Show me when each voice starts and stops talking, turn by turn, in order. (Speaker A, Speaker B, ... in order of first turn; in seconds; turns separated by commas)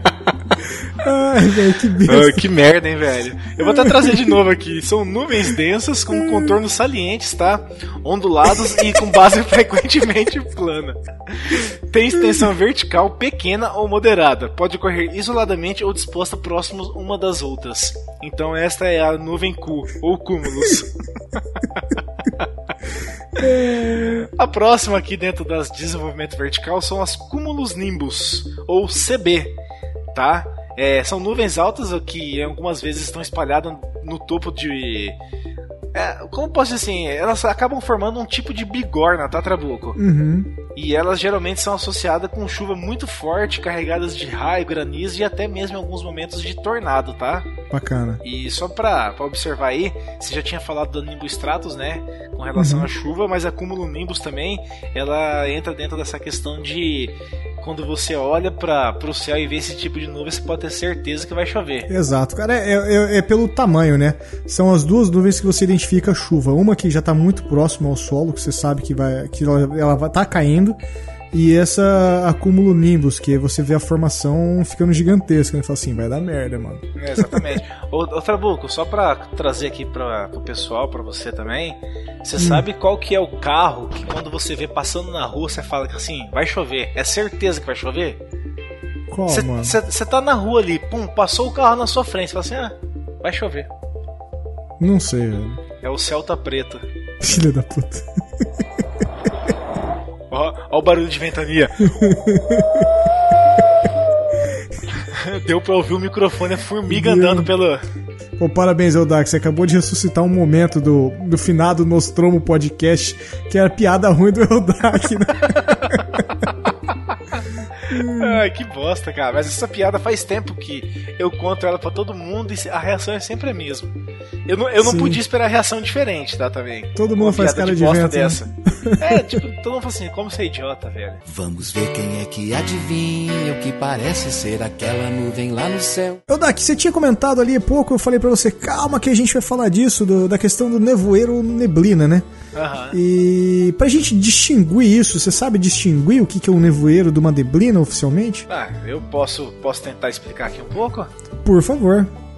Speaker A: 0.7-2.5, Speaker B: 2.1-21.0, Speaker A: 3.6-4.3, Speaker A: 6.1-6.5, Speaker A: 8.7-8.9, Speaker B: 21.6-22.5, Speaker A: 23.4-24.3, Speaker B: 23.4-29.5, Speaker B: 30.1-35.1, Speaker B: 35.9-40.0, Speaker A: 40.0-40.5, Speaker B: 40.7-47.5, Speaker A: 47.7-48.2, Speaker B: 48.2-61.9, Speaker A: 52.5-52.9, Speaker A: 61.9-70.8, Speaker A: 71.3-77.6, Speaker B: 77.0-88.2, Speaker A: 82.4-82.6, Speaker A: 89.1-89.8, Speaker B: 89.3-93.7, Speaker A: 94.8-95.6, Speaker B: 95.8-96.8, Speaker A: 97.2-98.6, Speaker B: 100.3-102.1, Speaker A: 101.9-102.9, Speaker B: 105.0-107.8, Speaker A: 106.9-107.5, Speaker A: 108.4-116.2, Speaker B: 117.9-131.2, Speaker A: 117.9-118.4, Speaker A: 124.8-125.2, Speaker A: 127.0-129.4, Speaker C: 131.2-136.2, Speaker A: 136.3-142.2, Speaker B: 142.5-143.0, Speaker A: 142.9-148.4, Speaker B: 148.5-151.1, Speaker A: 151.4-152.1